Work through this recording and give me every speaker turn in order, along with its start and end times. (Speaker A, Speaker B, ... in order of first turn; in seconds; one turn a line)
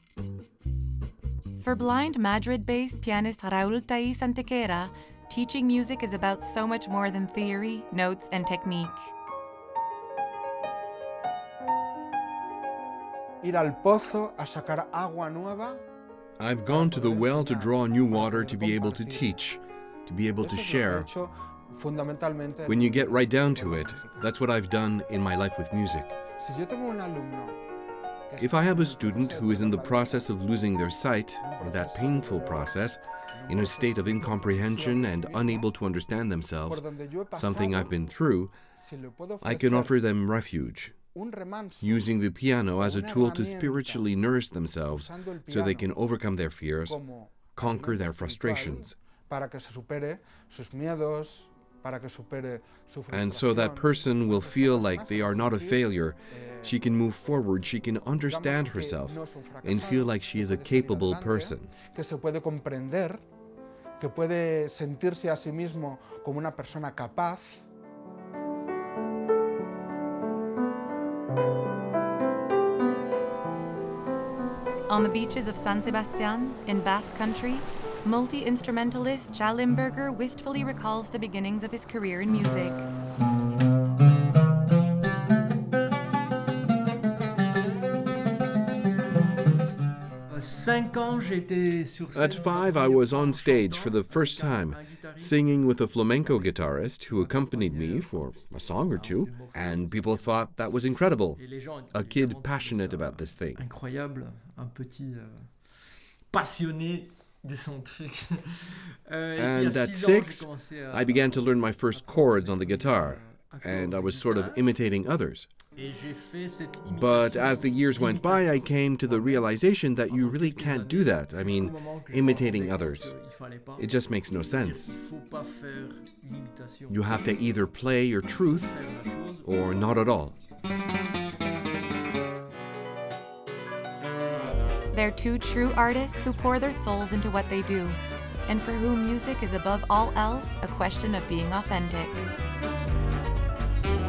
Speaker A: 1.6-9.1
Speaker B: 13.4-15.8
Speaker C: 16.4-21.1
Speaker B: 16.7-19.3
Speaker B: 20.4-24.3
Speaker C: 22.7-26.1
Speaker B: 26.4-27.6
Speaker B: 28.3-30.2
Speaker C: 28.4-38.5
Speaker B: 31.4-32.8
Speaker B: 33.3-35.7
Speaker B: 36.7-37.9
Speaker B: 38.8-39.9
Speaker C: 39.4-40.9
Speaker B: 41.1-42.0
Speaker C: 41.8-47.0
Speaker B: 42.8-44.1
Speaker B: 45.0-45.9
Speaker B: 46.8-56.8
Speaker C: 47.5-48.9
Speaker C: 53.1-61.7
Speaker B: 58.2-63.2
Speaker B: 64.0-67.6
Speaker A: 74.9-82.9
Speaker D: 90.3-95.5
Speaker C: 92.1-103.6
Speaker D: 97.1-100.6
Speaker D: 101.3-114.7
Speaker C: 109.3-115.5
Speaker D: 115.7-127.4
Speaker C: 116.9-123.1
Speaker C: 123.8-125.0
Speaker C: 126.9-128.8
Speaker D: 128.4-130.0
Speaker C: 129.4-130.4
Speaker A: 134.9-142.2